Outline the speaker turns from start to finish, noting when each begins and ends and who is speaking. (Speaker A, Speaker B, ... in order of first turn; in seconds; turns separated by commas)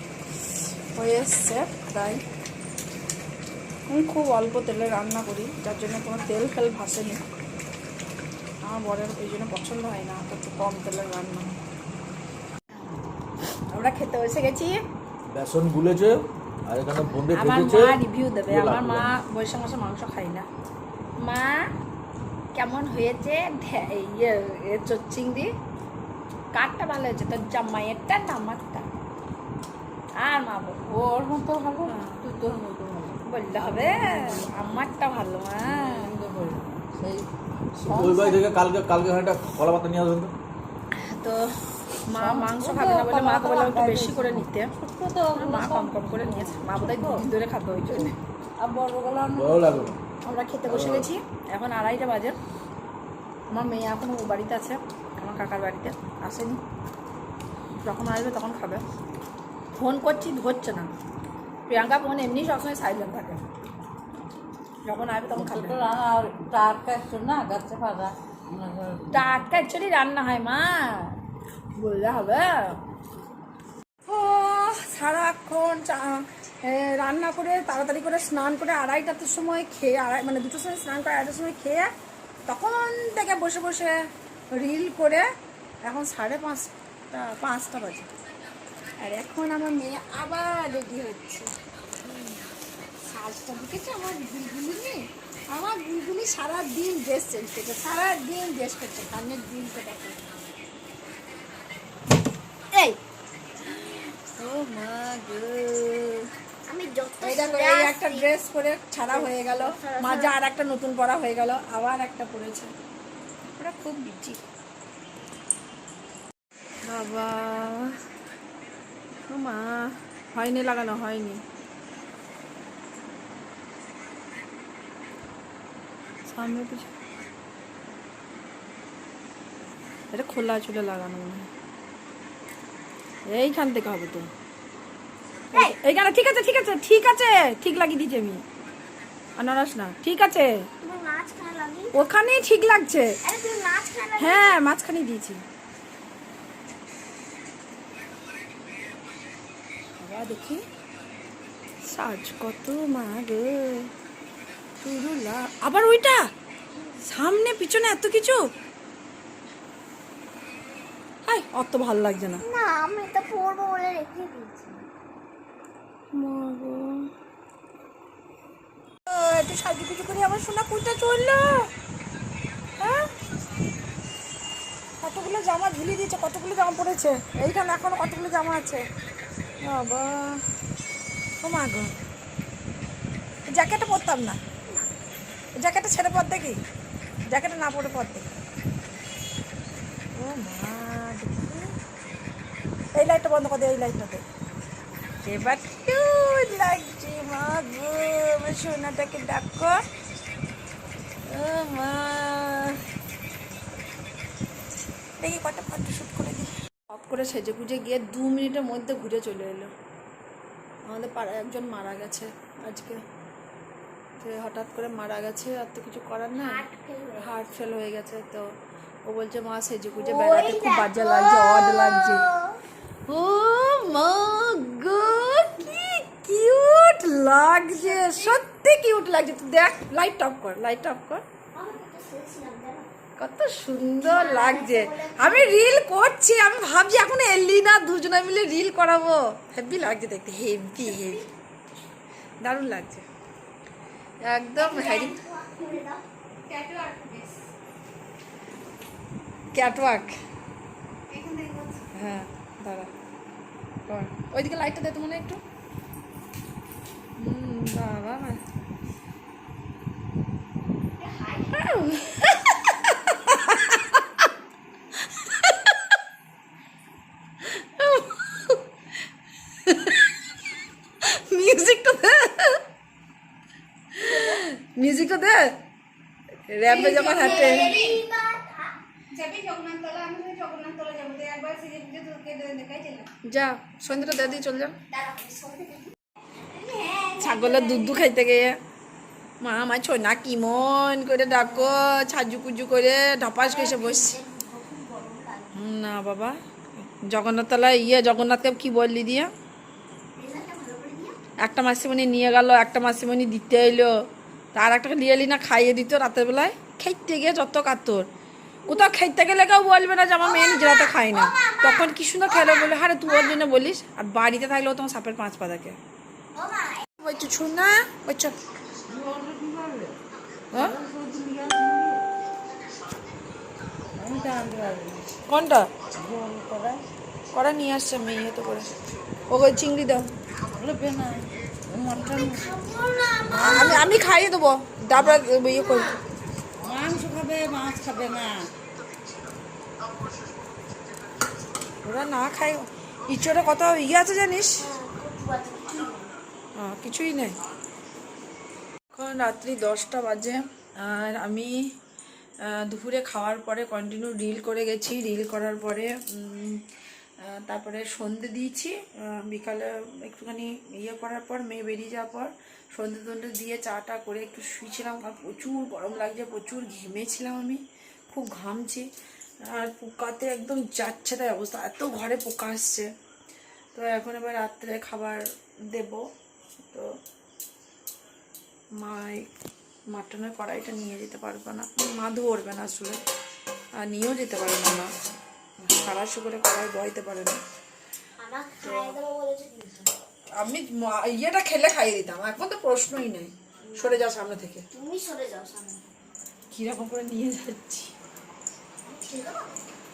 Speaker A: 0.4-2.2, Speaker A: 3.9-7.2, Speaker A: 8.6-11.6, Speaker A: 13.7-14.8, Speaker B: 15.3-19.1, Speaker A: 17.3-20.5, Speaker A: 21.2-21.6, Speaker A: 22.6-25.5, Speaker A: 26.5-28.9, Speaker A: 30.2-30.8, Speaker C: 30.8-34.9, Speaker A: 31.9-32.3, Speaker A: 33.2-36.1, Speaker C: 35.6-38.4, Speaker B: 37.8-40.3, Speaker A: 40.9-44.7, Speaker C: 42.1-47.3, Speaker A: 45.3-48.2, Speaker C: 48.6-50.0, Speaker B: 49.3-50.0, Speaker A: 50.2-52.4, Speaker B: 50.7-51.1, Speaker A: 53.5-56.6, Speaker A: 57.8-58.8, Speaker A: 59.7-60.9, Speaker A: 61.7-63.4, Speaker A: 64.8-65.9, Speaker C: 65.3-69.4, Speaker A: 69.1-71.2, Speaker A: 71.7-72.8, Speaker A: 74.1-81.9, Speaker A: 82.5-85.3, Speaker A: 85.8-88.1, Speaker A: 89.0-91.5, Speaker A: 92.0-92.5, Speaker A: 93.1-100.2, Speaker A: 102.7-103.0, Speaker A: 103.7-106.3, Speaker D: 106.7-108.3, Speaker A: 107.2-112.7, Speaker D: 109.1-110.3, Speaker A: 113.6-114.4, Speaker A: 116.9-117.9, Speaker A: 119.3-121.4, Speaker A: 126.3-126.9, Speaker A: 130.1-131.5, Speaker A: 133.3-134.3, Speaker A: 135.5-138.4, Speaker A: 139.4-140.7, Speaker D: 140.8-141.9, Speaker A: 141.9-143.2, Speaker D: 143.2-144.6, Speaker A: 144.2-145.4, Speaker A: 150.0-150.6, Speaker A: 151.9-153.9, Speaker A: 154.8-156.3, Speaker A: 157.0-158.5, Speaker A: 161.2-162.4, Speaker D: 162.4-164.8, Speaker A: 166.1-167.1, Speaker A: 169.1-171.7, Speaker A: 172.8-173.1, Speaker A: 175.0-178.8, Speaker A: 179.6-180.4, Speaker A: 181.4-181.9, Speaker A: 183.5-184.4, Speaker A: 185.6-186.6, Speaker A: 187.3-188.3, Speaker A: 190.2-191.7, Speaker A: 192.9-194.2, Speaker A: 195.2-199.8, Speaker A: 201.3-202.8, Speaker A: 205.2-209.7, Speaker A: 210.9-213.0, Speaker A: 214.2-216.7, Speaker D: 216.4-217.7, Speaker A: 217.2-218.5, Speaker A: 219.1-222.3, Speaker D: 219.9-222.6, Speaker A: 223.1-231.2, Speaker D: 227.8-228.4, Speaker D: 231.5-232.9, Speaker A: 233.2-241.2, Speaker D: 234.1-235.7, Speaker D: 240.8-241.2, Speaker A: 242.4-243.1, Speaker A: 244.2-245.2, Speaker D: 244.6-246.0, Speaker E: 246.5-247.4, Speaker A: 249.5-250.1, Speaker E: 251.1-251.8, Speaker A: 251.9-252.9, Speaker A: 253.9-255.4, Speaker A: 257.2-258.4, Speaker D: 261.0-262.4, Speaker A: 261.5-264.3, Speaker A: 265.1-265.8, Speaker A: 267.4-268.6, Speaker A: 269.6-270.1, Speaker A: 271.0-272.6, Speaker A: 274.0-275.5, Speaker A: 276.5-277.8, Speaker D: 276.7-278.7, Speaker E: 276.8-278.0, Speaker E: 279.1-283.1, Speaker A: 283.2-284.8, Speaker D: 283.9-284.3, Speaker D: 284.9-288.0, Speaker A: 287.2-288.6, Speaker A: 289.4-294.2, Speaker D: 293.4-295.6, Speaker A: 295.5-299.3, Speaker D: 300.1-301.2, Speaker A: 301.4-303.9, Speaker A: 304.6-308.1, Speaker A: 308.7-315.8, Speaker D: 310.2-313.4, Speaker D: 316.4-316.9, Speaker A: 317.0-318.4, Speaker C: 318.9-320.0, Speaker C: 320.5-322.0, Speaker C: 323.9-325.1, Speaker A: 325.3-325.7, Speaker C: 325.9-326.8, Speaker A: 327.3-328.7, Speaker A: 329.3-330.1, Speaker C: 330.5-334.0, Speaker D: 332.0-333.8, Speaker A: 333.4-335.9, Speaker C: 334.9-335.3, Speaker D: 335.3-336.0, Speaker C: 336.6-338.5, Speaker A: 341.8-344.7, Speaker D: 344.6-346.2, Speaker A: 346.6-347.4, Speaker A: 348.9-351.6, Speaker A: 352.5-356.6, Speaker A: 357.2-368.9, Speaker A: 369.4-372.9, Speaker A: 373.7-375.2, Speaker A: 375.7-376.0, Speaker A: 378.8-379.3, Speaker A: 379.9-383.0, Speaker A: 383.8-384.9, Speaker A: 385.6-387.4, Speaker D: 388.2-389.9, Speaker A: 388.6-389.0, Speaker A: 390.4-394.7, Speaker D: 393.7-394.1, Speaker D: 394.7-395.9, Speaker A: 396.5-397.9, Speaker D: 398.9-399.5